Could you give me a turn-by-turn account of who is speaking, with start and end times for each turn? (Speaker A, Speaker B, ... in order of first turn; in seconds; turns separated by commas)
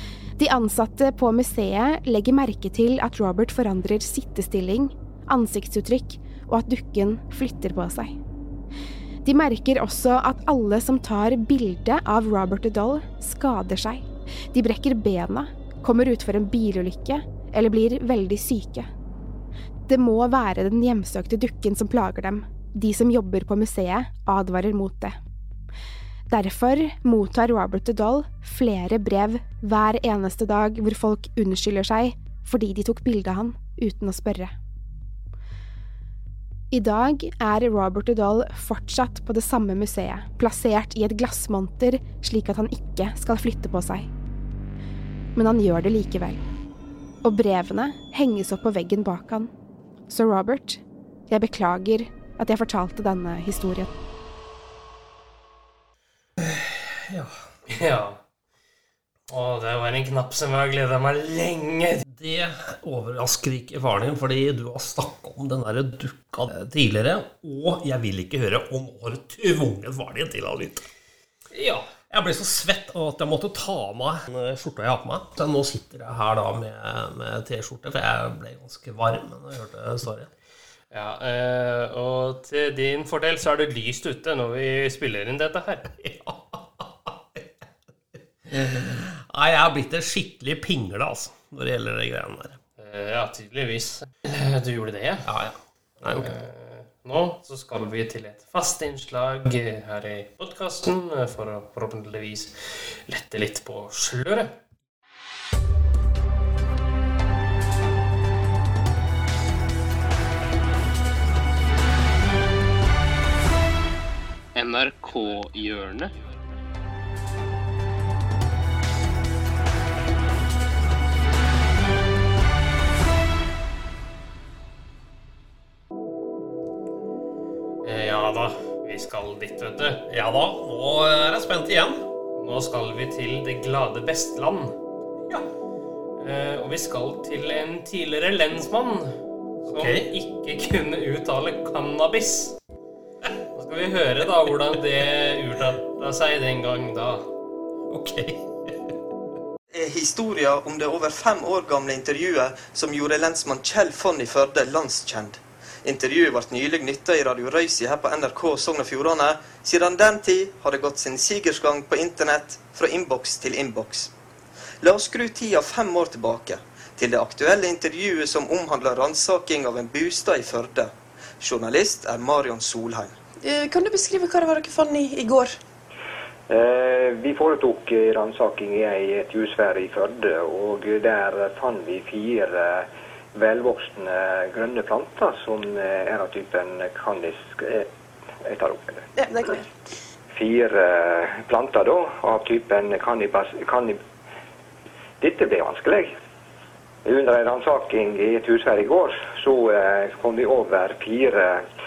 Speaker A: 0.4-8.2, Speaker A: 9.2-18.9, Speaker A: 19.9-25.2, Speaker A: 26.3-34.5, Speaker A: 36.7-44.1, Speaker A: 45.4-46.4, Speaker A: 47.2-49.5, Speaker A: 50.1-53.9, Speaker B: 56.4-57.4, Speaker C: 57.7-58.2, Speaker C: 59.3-62.0, Speaker B: 62.1-70.8, Speaker C: 71.5-71.9, Speaker B: 72.1-80.3, Speaker C: 80.9-85.9, Speaker B: 85.9-92.6, Speaker C: 92.8-95.3, Speaker B: 95.2-96.4, Speaker C: 96.2-104.6, Speaker C: 114.5-116.1, Speaker C: 127.8-130.0, Speaker B: 130.1-132.0, Speaker C: 132.4-134.8, Speaker C: 136.2-142.6, Speaker B: 139.7-140.1, Speaker C: 143.6-147.3, Speaker B: 147.9-148.9, Speaker D: 149.7-164.1, Speaker D: 164.8-173.2, Speaker E: 173.4-175.6, Speaker F: 176.5-187.9, Speaker F: 188.4-189.1, Speaker E: 189.2-189.7, Speaker F: 190.3-194.0, Speaker F: 195.2-196.1, Speaker F: 197.1-201.6